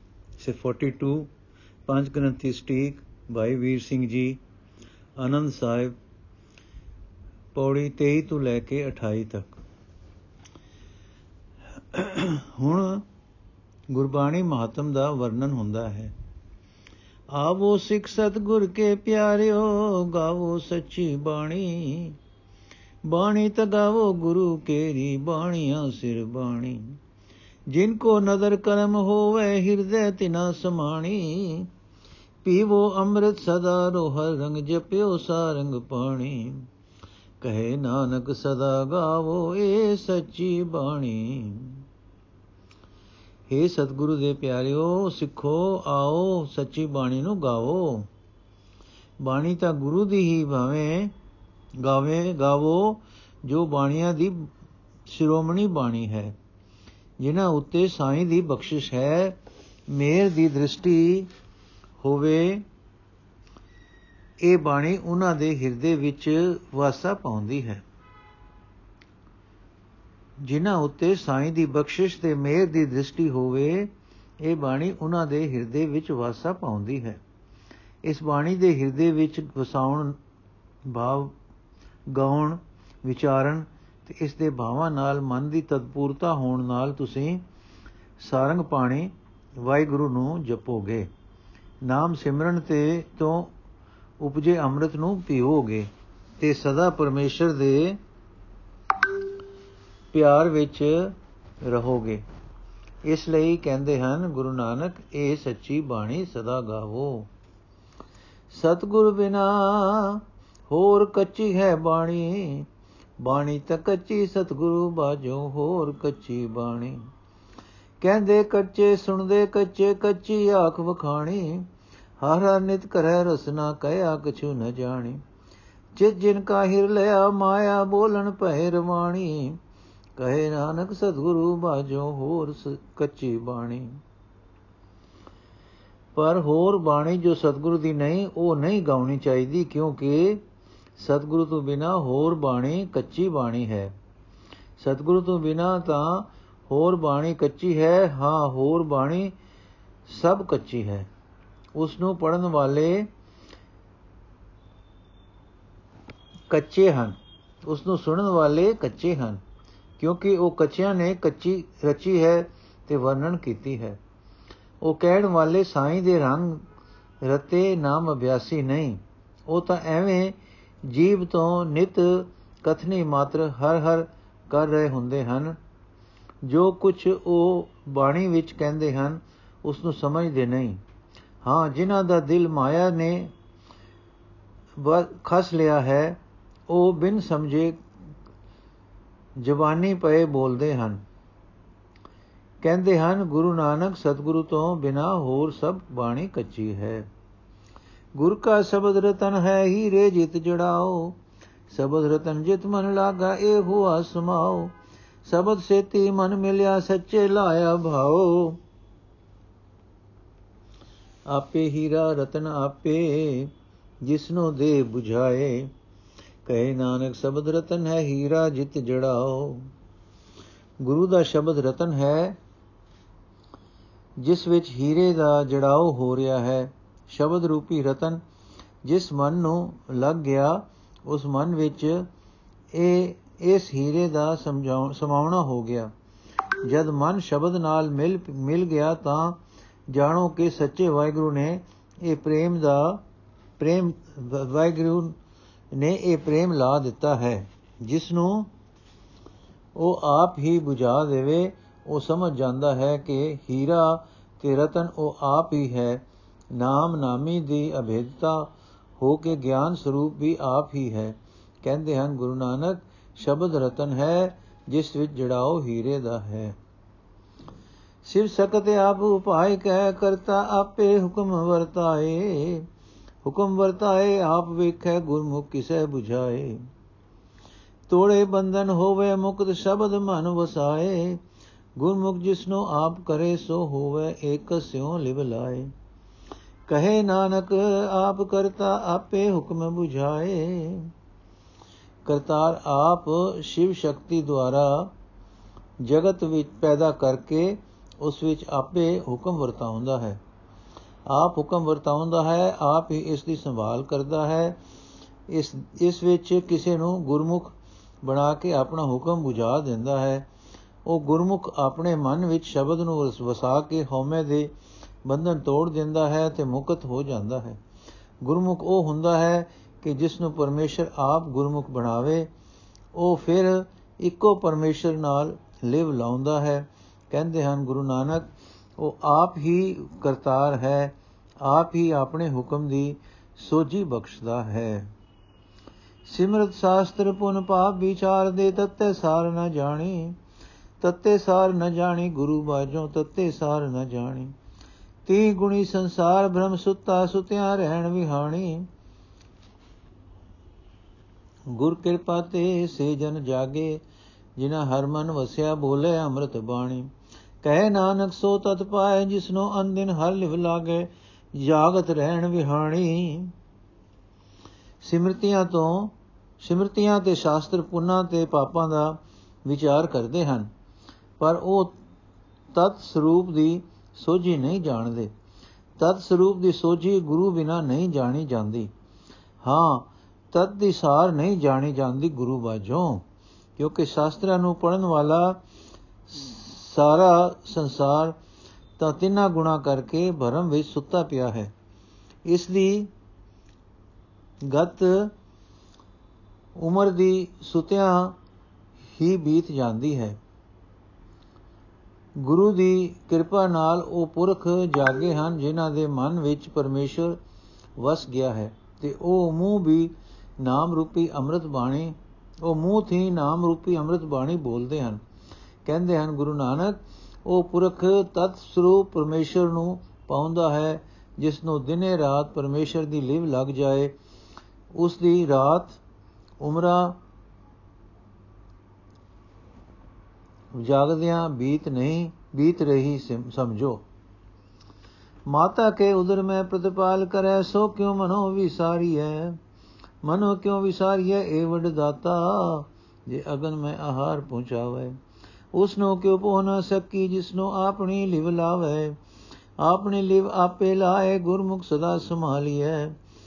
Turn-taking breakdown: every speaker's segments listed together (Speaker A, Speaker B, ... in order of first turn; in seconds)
Speaker A: 0.4-1.3, 1.9-4.4, 5.2-5.9, 7.5-9.5, 11.9-13.0, 13.9-16.1, 17.3-22.2, 23.1-27.0, 27.7-31.7, 32.4-36.6, 37.4-41.8, 43.5-48.1, 49.2-51.1, 51.8-54.5, 55.1-56.3, 57.2-59.4, 59.9-61.3, 62.0-62.6, 64.4-67.8, 70.4-73.9, 74.4-77.2, 78.0-80.2, 80.8-81.3, 82.1-87.4, 88.2-91.1, 91.8-93.5, 94.2-98.0, 100.1-102.2, 103.0-107.3, 108.5-112.7, 113.2-117.1, 118.0-121.7, 122.2-125.2, 125.9-129.6, 130.2-134.0, 136.1-140.4, 141.0-143.9, 144.8-149.3, 150.1-151.1, 151.7-153.1, 156.5-159.4, 160.0-164.0, 164.8-166.6, 167.2-170.3, 170.9-175.6, 176.4-180.8, 181.4-183.3, 184.8-187.8, 189.4-191.0, 192.6-197.1, 198.2-201.2, 201.7-204.7, 205.2-208.6, 211.3-213.5, 214.0-215.7, 216.4-219.7, 220.8-222.4, 224.2-228.2, 228.8-232.1, 232.7-235.9, 236.6-239.4, 239.9-243.0, 243.6-245.2, 245.7-248.5, 249.8-256.0, 256.5-266.6, 268.0-272.6, 273.2-276.6, 277.9-281.2, 281.8-285.7, 286.7-290.9, 292.0-294.9, 295.8-300.2, 301.1-304.6, 305.3-310.2, 310.9-314.5, 315.0-317.6, 318.2-322.3, 322.9-334.9, 336.1-340.2, 340.8-344.3, 345.1-348.7, 351.5-353.8, 354.4-356.9, 357.4-363.3, 364.8-370.5, 371.2-371.7, 372.5-375.1, 375.8-378.7, 379.4-383.0, 383.6-385.4, 386.1-388.1, 388.8-391.5, 392.2-392.9, 394.4-395.1, 396.6-398.2, 398.9-400.2, 402.2-407.2, 407.8-415.0, 415.6-423.9, 424.7-425.8, 426.4-427.0, 430.5-433.8, 435.3-439.4, 440.0-445.0, 445.5-449.0, 449.6-452.9